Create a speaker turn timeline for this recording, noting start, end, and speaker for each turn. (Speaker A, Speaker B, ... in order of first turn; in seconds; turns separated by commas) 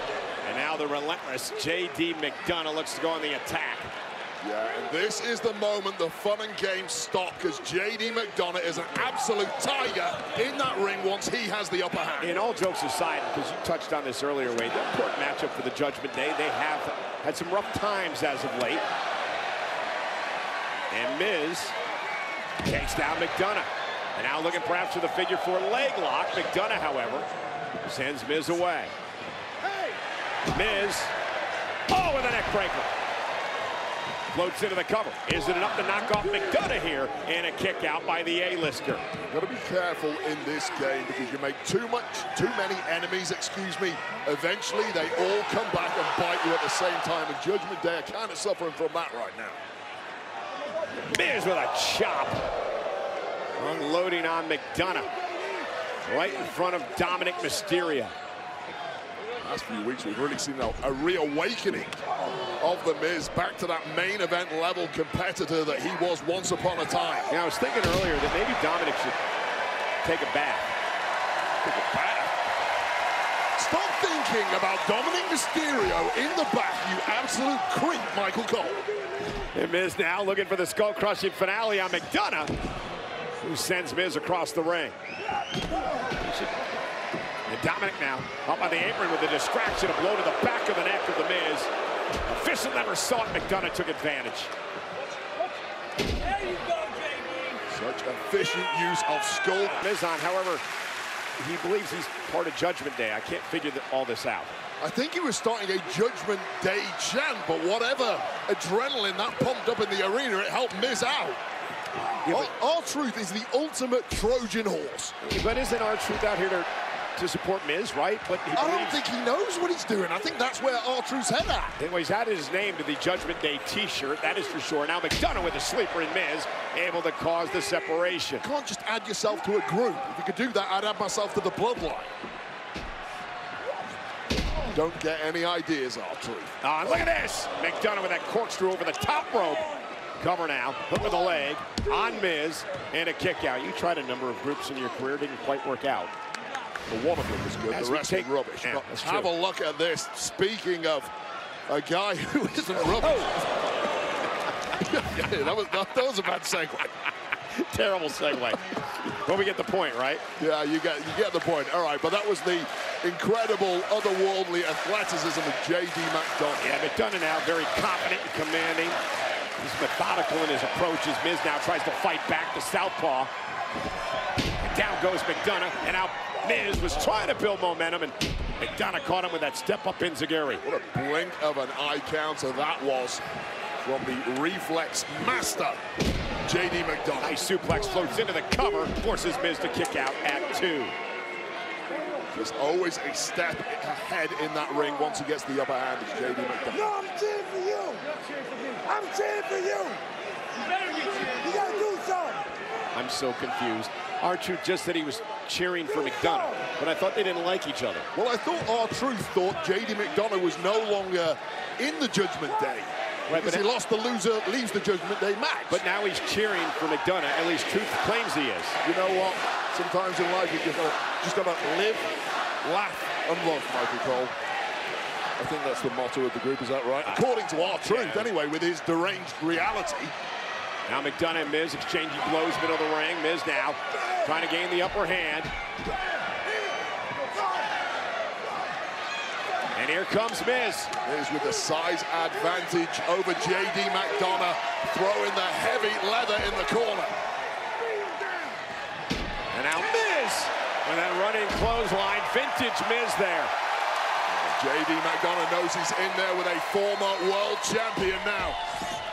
Speaker A: 0.4-3.9, Speaker B: 4.4-12.4, Speaker A: 12.2-18.8, Speaker A: 20.9-21.7, Speaker A: 22.6-27.3, Speaker A: 27.8-28.9, Speaker A: 30.5-31.1, Speaker A: 31.9-32.9, Speaker A: 34.3-39.0, Speaker B: 39.2-49.6, Speaker A: 51.0-52.4, Speaker A: 53.6-55.1, Speaker A: 56.0-58.1, Speaker B: 59.4-62.0, Speaker B: 62.6-67.3, Speaker A: 67.3-69.2, Speaker A: 70.0-70.7, Speaker B: 71.6-72.3, Speaker B: 73.5-78.8, Speaker A: 79.4-82.5, Speaker A: 83.4-85.0, Speaker A: 86.1-86.5, Speaker A: 87.5-91.7, Speaker A: 92.2-94.5, Speaker B: 97.7-99.9, Speaker A: 99.7-100.6, Speaker A: 101.4-104.5, Speaker B: 104.8-111.4, Speaker B: 112.2-115.1, Speaker A: 112.2-112.5, Speaker A: 115.2-119.0, Speaker B: 118.5-121.8, Speaker A: 121.8-128.4, Speaker B: 128.4-132.1, Speaker B: 134.7-136.5, Speaker A: 136.6-139.7, Speaker A: 140.2-146.1, Speaker B: 146.9-151.1, Speaker A: 147.7-149.3, Speaker B: 151.7-153.4, Speaker A: 152.8-153.3, Speaker B: 154.8-157.1, Speaker A: 157.5-160.2, Speaker B: 160.4-166.7, Speaker A: 166.6-169.0, Speaker A: 169.6-173.3, Speaker A: 174.6-180.6, Speaker B: 180.6-183.2, Speaker B: 183.8-185.8, Speaker B: 186.4-187.4, Speaker A: 187.2-190.9, Speaker B: 192.3-197.0, Speaker C: 197.3-198.0, Speaker C: 198.9-199.7, Speaker C: 201.5-202.4, Speaker A: 202.9-208.1, Speaker B: 208.1-215.8, Speaker A: 213.3-213.6, Speaker A: 215.7-218.8, Speaker B: 218.8-224.3, Speaker B: 225.4-230.1, Speaker A: 227.0-228.3, Speaker A: 230.9-235.5, Speaker A: 239.7-240.9, Speaker B: 241.0-247.1, Speaker A: 249.5-253.5, Speaker B: 254.3-258.6